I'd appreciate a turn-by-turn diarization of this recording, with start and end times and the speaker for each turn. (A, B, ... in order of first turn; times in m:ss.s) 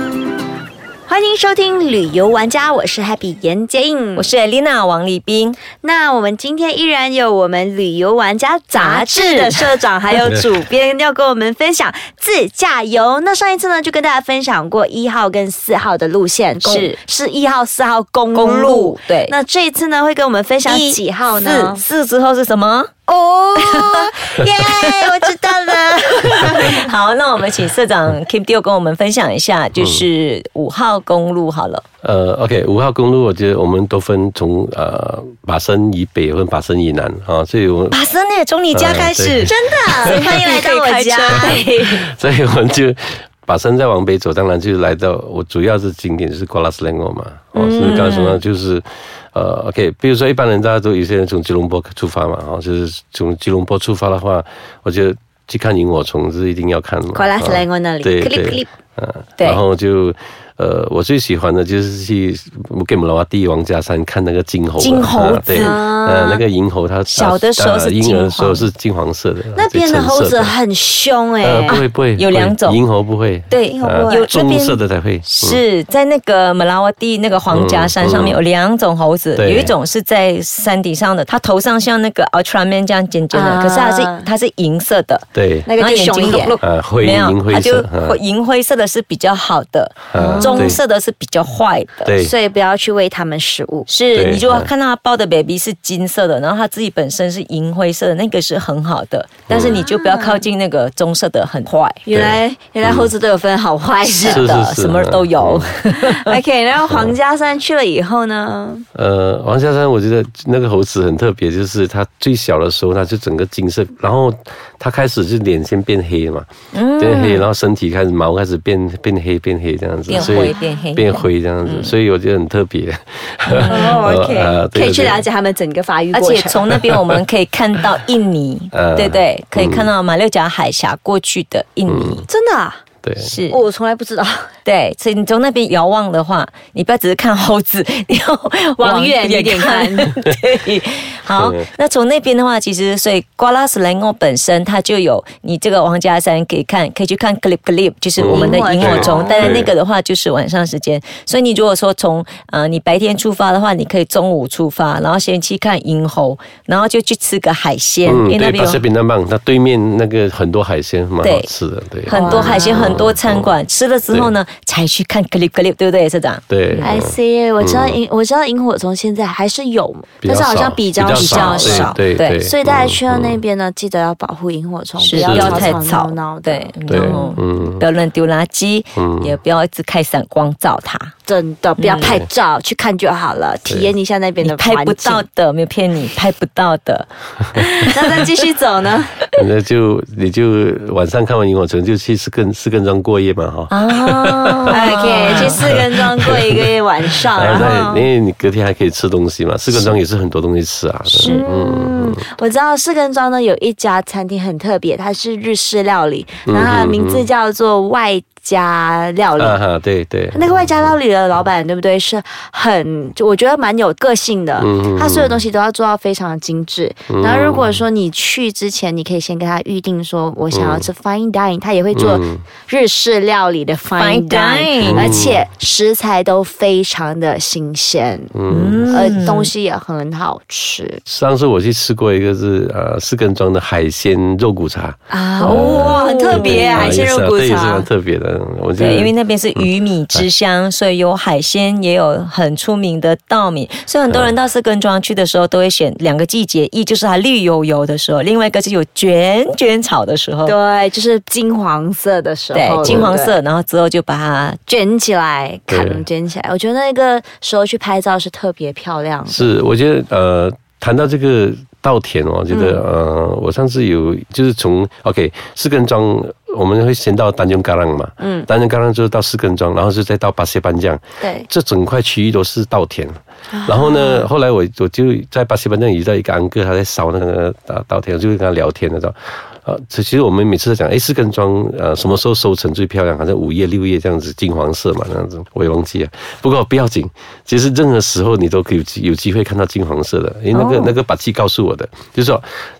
0:01.0-0:04.3 A
0:04.2-0:05.6 B
0:05.7-0:21.8 A
0:08.7-0:09.6 B
0:16.6-0:17.0 B
0:18.3-0:19.3 B
0:20.6-0:22.9 B
0:23.1-0:26.8 A
0:23.6-0:25.3 B
0:26.0-0:31.8 B
0:29.8-0:30.0 C
0:32.0-0:38.0 C
0:37.9-0:42.0 B
0:38.7-0:40.3 C
0:39.5-0:42.0 A
0:41.3-1:10.5 C
0:47.5-0:48.1 A
0:47.8-0:48.4 B
0:57.1-0:58.7 A
1:04.8-1:05.8 B
1:05.6-1:06.4 A
1:07.1-1:08.7 B
1:09.5-1:11.8 A
1:11.4-1:15.6 C
1:11.7-1:12.8 B
1:13.5-1:25.2 B
1:13.7-1:14.3 A
1:17.5-1:18.4 C
1:19.4-1:19.7 C
1:23.3-1:24.3 A
1:25.3-1:25.7 C
1:25.7-1:26.6 A
1:25.8-1:32.1 B
1:26.6-1:28.2 C
1:30.1-1:30.8 C
1:30.2-1:30.8 A
1:32.0-1:32.3 C
1:32.2-1:33.9 A
1:33.9-1:42.0 B
1:34.1-1:34.7 C
1:39.5-1:39.8 C
1:39.6-1:40.4 A
1:42.0-1:44.5 A
1:42.1-1:43.1 C
1:44.0-1:46.4 B
1:44.2-1:45.7 C
1:45.9-1:48.8 A
1:46.9-1:47.1 C
1:48.9-2:05.2 C
1:56.7-1:57.4 B
2:00.1-2:01.9 B
2:00.1-2:00.6 A
2:03.5-2:04.0 B
2:03.7-2:06.7 A
2:06.1-2:12.3 B
2:06.7-2:07.2 C
2:08.7-2:09.9 C
2:11.8-2:12.2 C
2:12.3-2:12.8 A
2:13.0-2:13.3 C
2:13.2-2:13.6 B
2:13.5-2:14.5 A
2:14.6-2:38.8 B
2:18.8-2:20.1 A
2:21.3-2:21.6 C
2:28.2-2:29.7 C
2:28.3-2:29.5 A
2:38.0-2:43.5 C
2:41.2-2:41.5 B
2:42.1-2:46.9 B
2:42.1-2:43.1 A
2:44.1-2:44.3 C
2:46.5-2:48.0 C
2:46.8-2:57.3 A
2:50.2-2:53.4 C
2:51.1-2:52.4 B
2:55.0-3:01.1 B
2:55.2-2:55.8 C
2:56.9-2:57.8 C
2:59.0-2:59.4 C
3:01.2-3:05.2 A
3:01.8-3:02.2 B
3:02.0-3:02.2 C
3:03.7-3:03.9 C
3:04.4-3:08.2 B
3:07.5-3:09.2 A
3:09.4-3:16.7 C
3:13.7-3:15.6 B
3:14.7-3:18.1 A
3:17.3-3:22.3 C
3:21.1-3:21.4 B
3:21.2-3:29.6 A
3:26.4-3:27.3 C
3:29.4-3:31.0 C
3:30.3-3:48.4 A
3:34.6-3:35.4 C
3:37.1-3:37.8 C
3:40.5-3:40.9 C
3:41.9-3:42.4 C
3:44.0-3:45.1 B
3:44.8-3:45.4 C
3:48.3-3:49.2 C
3:48.5-3:49.5 B
3:48.9-3:51.0 A
3:51.0-4:00.2 C
3:55.1-3:57.9 A
3:55.4-3:57.0 B
3:58.8-4:10.5 B
4:10.4-4:13.4 A
4:12.5-4:14.6 B
4:12.8-4:13.1 C
4:14.7-4:19.5 A
4:15.7-4:16.0 C
4:19.3-4:52.4 C
4:22.5-4:22.8 A
4:28.2-4:28.5 A
4:31.2-4:31.5 A
4:33.5-4:34.3 A
4:50.6-4:50.9 A